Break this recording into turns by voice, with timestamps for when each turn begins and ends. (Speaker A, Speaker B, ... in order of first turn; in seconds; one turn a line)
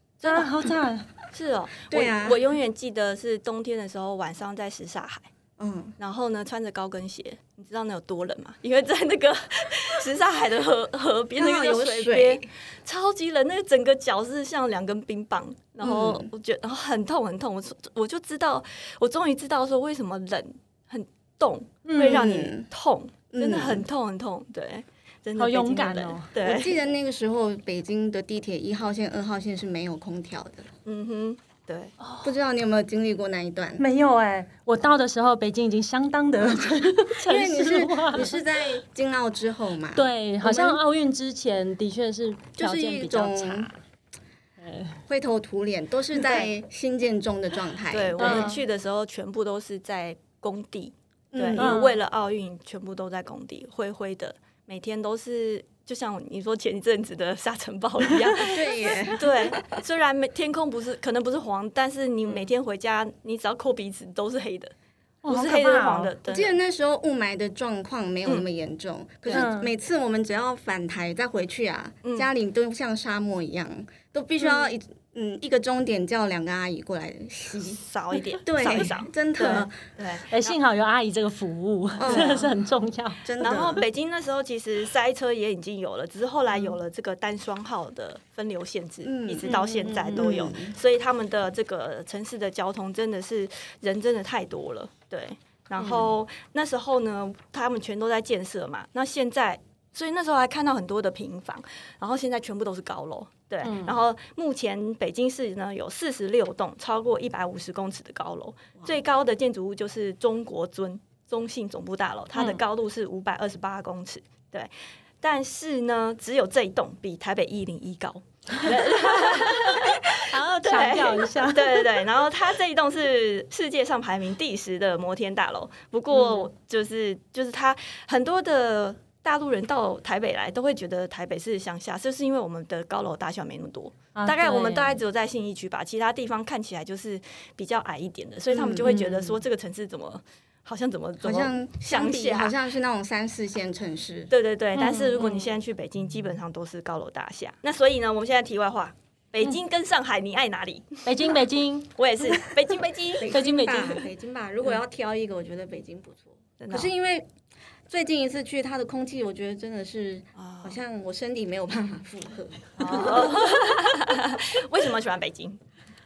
Speaker A: 0.2-0.5
Speaker B: 0.2-1.1
Speaker A: 1.3-5.3
Speaker C: 1.9-2.4
Speaker C: 5.6-6.0
Speaker A: 6.0-26.8
Speaker C: 11.4-12.5
Speaker C: 15.8-16.3
Speaker B: 21.9-22.3
Speaker C: 22.0-22.7
Speaker C: 23.3-23.9
Speaker B: 25.4-26.3
Speaker C: 26.4-30.7
Speaker A: 30.9-31.9
Speaker B: 32.0-32.3
Speaker C: 32.2-33.8
Speaker B: 33.8-38.3
Speaker C: 36.6-40.8
Speaker B: 39.9-43.8
Speaker C: 42.6-43.7
Speaker B: 44.6-45.0
Speaker C: 45.1-48.6
Speaker A: 47.9-58.6
Speaker B: 48.2-48.6
Speaker C: 51.3-51.9
Speaker B: 51.6-52.0
Speaker C: 58.4-59.7
Speaker A: 59.1-64.7
Speaker B: 65.2-66.1
Speaker A: 65.3-66.6
Speaker C: 66.3-77.8
Speaker B: 69.3-69.7
Speaker A: 72.0-72.3
Speaker A: 77.7-80.6
Speaker C: 78.4-79.8
Speaker B: 80.3-83.7
Speaker C: 82.0-82.5
Speaker A: 82.1-82.5
Speaker C: 83.2-83.9
Speaker A: 83.4-114.7
Speaker C: 89.0-90.8
Speaker B: 89.4-90.3
Speaker C: 95.8-96.1
Speaker B: 103.6-104.0
Speaker B: 112.3-112.6
Speaker A: 115.2-142.6
Speaker B: 120.3-121.9
Speaker B: 126.1-126.5
Speaker B: 134.2-135.0
Speaker C: 138.5-139.0
Speaker B: 138.8-139.4
Speaker C: 141.2-144.3
Speaker A: 144.3-151.4
Speaker B: 144.8-145.5
Speaker B: 151.1-152.5
Speaker A: 152.0-153.3
Speaker C: 153.2-157.3
Speaker B: 153.3-154.1
Speaker A: 156.6-156.9
Speaker C: 157.9-163.4
Speaker A: 160.4-160.8
Speaker A: 162.8-165.6